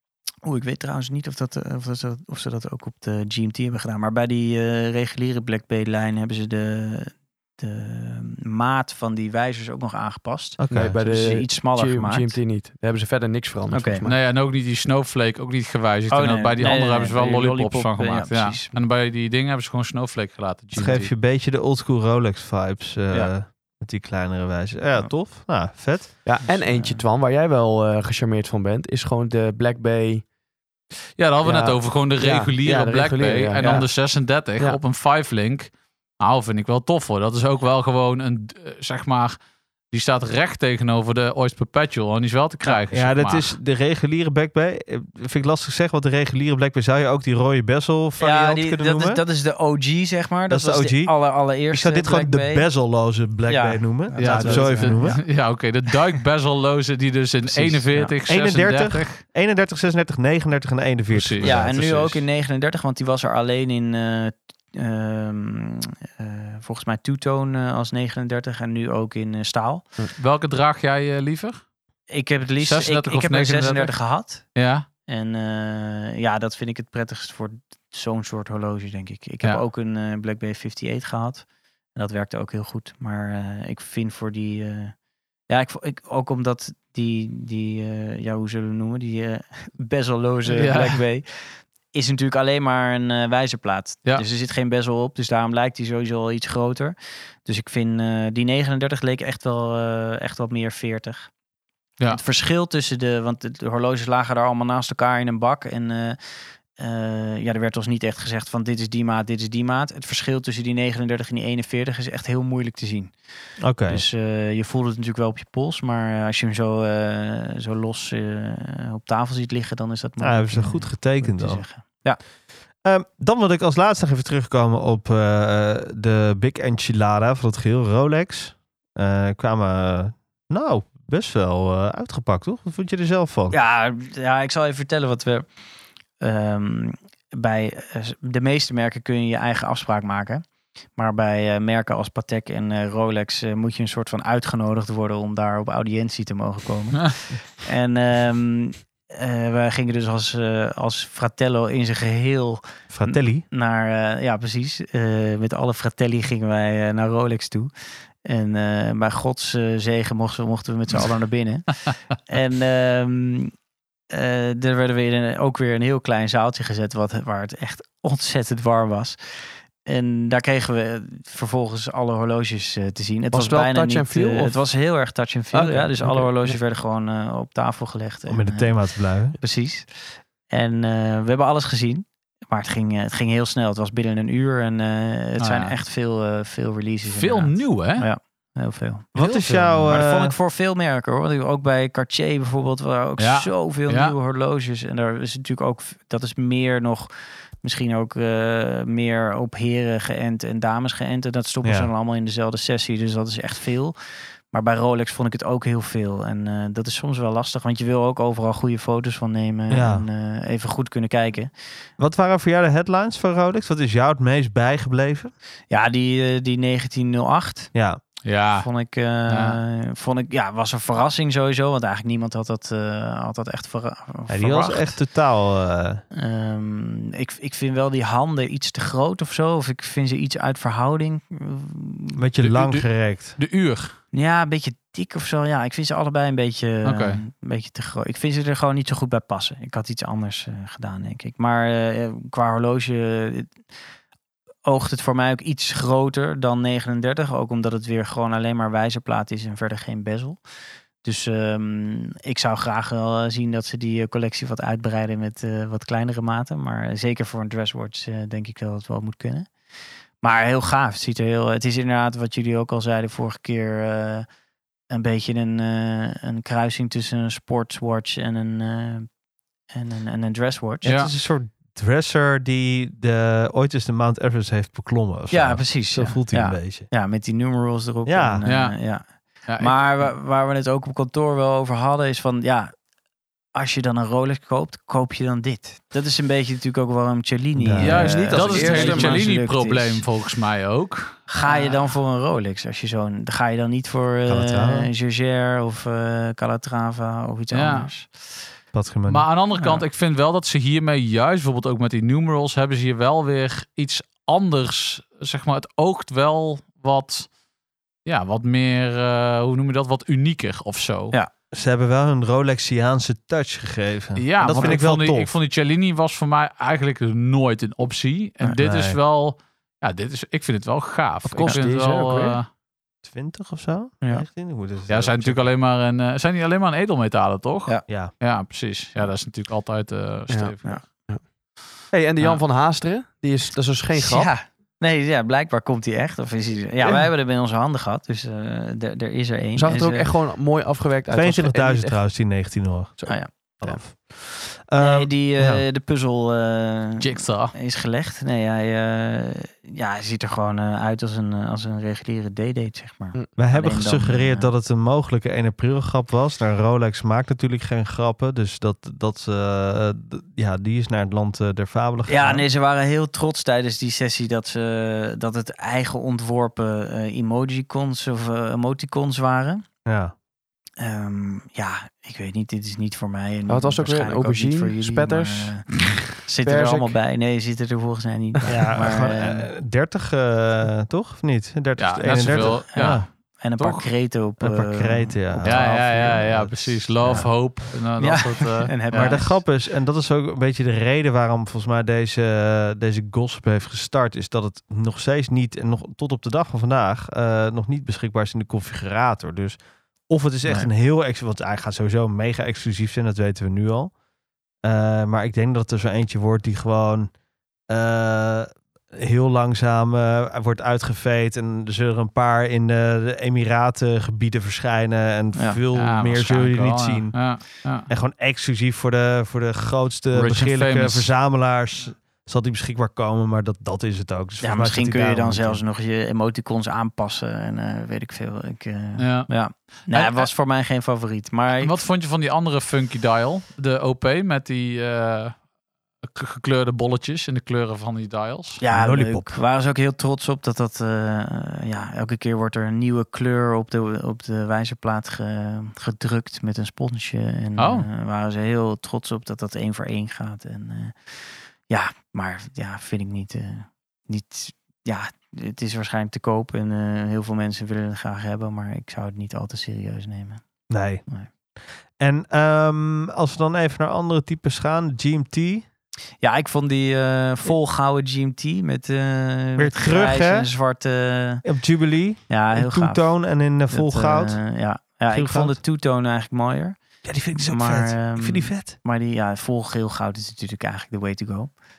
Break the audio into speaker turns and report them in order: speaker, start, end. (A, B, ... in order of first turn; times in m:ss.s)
0:00.4-0:12.4 A
0:10.6-0:10.9 B
0:10.7-0:14.2 C
0:13.7-0:14.0 A
0:14.0-0:21.1 D
0:16.1-0:18.8 A
0:20.7-0:26.3 B
0:26.2-0:30.3 C
0:26.4-0:27.0 A
0:31.2-0:39.4 D
0:31.4-0:33.9 C
0:33.6-0:33.9 A
0:39.9-0:43.6 D
0:42.9-0:49.2 B
0:48.2-0:52.7 A
0:50.5-0:55.2 B
0:53.5-0:55.2 A
0:54.2-0:59.2 D
0:57.5-0:58.1 A
0:58.3-1:02.1 B
1:01.1-1:02.2 D
1:01.4-1:09.9 A
1:10.2-1:11.6 D
1:12.1-1:14.6 A
1:12.6-1:14.9 D
1:15.1-1:24.9 A
1:25.5-1:41.3 A
1:30.5-1:31.0 D
1:42.1-1:46.2 A
1:46.7-1:53.1 A
1:53.6-1:54.0 B
1:53.8-2:02.2 A
2:00.2-2:01.6 B
2:02.8-2:13.6 B
2:13.5-2:15.5 A
2:16.2-2:20.4 A
2:21.0-2:37.7 A
2:32.9-2:33.4 B
2:38.2-2:41.7 A
2:42.3-2:43.5 A
2:44.1-2:49.2 A
2:49.8-2:58.8 A
2:53.3-2:54.6 C
2:55.5-2:56.6 C
2:58.3-2:59.4 B
2:59.4-3:09.2 A
3:05.4-3:05.7 D
3:07.1-3:08.1 D
3:09.2-3:10.4 B
3:09.2-3:10.0 D
3:09.9-3:24.0 A
3:13.2-3:14.2 D
3:21.6-3:21.9 B
3:24.5-3:31.5 A
3:29.7-3:30.1 B
3:32.0-3:35.3 B
3:35.7-3:37.7 A
3:37.7-3:38.0 B
3:38.2-3:38.7 D
3:38.5-3:45.0 A
3:39.3-3:39.6 D
3:44.3-3:46.0 B
3:46.1-3:52.2 A
3:52.2-3:53.4 B
3:52.4-3:54.0 D
3:54.1-4:03.6 A
3:56.8-3:57.2 D
4:04.6-4:10.4 A
4:11.0-4:19.5 A
4:20.2-4:24.3 A
4:24.9-4:29.1 A
4:29.7-4:30.9 A
4:30.8-4:31.1 D
4:30.9-4:36.9 B
4:35.3-4:39.1 A
4:38.1-4:38.4 B
4:38.5-4:38.8 D
4:39.5-4:40.1 D
4:39.6-4:42.7 A
4:43.6-4:50.1 A
4:47.6-4:48.2 B
4:47.8-4:49.3 C
4:47.8-4:51.9 D
4:51.3-4:58.1 A
4:54.3-4:54.9 B
4:57.5-4:57.9 D
4:58.7-4:59.3 B
4:59.1-5:07.3 D
4:59.6-4:59.8 A
5:08.1-5:11.2 D
5:11.5-5:15.3 B
5:14.2-5:22.5 D
5:14.4-5:14.8 A
5:18.6-5:19.0 B
5:21.2-5:22.4 C
5:23.0-5:25.5 B
5:24.9-5:30.8 D
5:27.9-5:28.1 B
5:30.3-5:31.2 C
5:31.9-5:34.3 C
5:34.0-5:40.1 A
5:39.6-5:42.0 C
5:41.1-5:43.0 B
5:43.0-5:43.8 C
5:43.6-5:45.6 B
5:44.8-5:54.5 A
5:47.0-5:47.5 D
5:53.4-6:02.4 B
6:02.1-6:09.6 A
6:09.9-6:10.1 B
6:10.8-6:19.5 A
6:13.5-6:15.5 C
6:16.4-6:17.0 C
6:18.5-6:23.1 B
6:21.8-6:23.9 D
6:22.3-6:26.2 A
6:24.4-6:27.3 B
6:25.4-6:29.2 D
6:28.0-6:29.4 A
6:28.9-6:43.9 B
6:40.5-6:40.7 A
6:44.6-6:47.1 B
6:47.7-7:05.6 B
6:55.4-6:55.6 A
6:55.7-6:57.9 D
7:00.1-7:01.1 D
7:04.4-7:11.8 A
7:09.0-7:09.3 D
7:09.8-7:10.3 D
7:11.6-7:15.4 D
7:16.0-7:18.6 D
7:18.6-7:40.4 A
7:18.7-7:19.4 B
7:27.6-7:27.9 D
7:40.7-7:41.0 B
7:42.0-7:45.6 B
7:46.2-7:51.4 A
7:49.6-7:50.5 B
7:51.4-7:54.4 B
7:52.3-7:53.2 A
7:53.7-7:56.8 A
7:55.1-7:55.6 B
7:57.0-7:58.8 B
7:57.3-8:01.5 A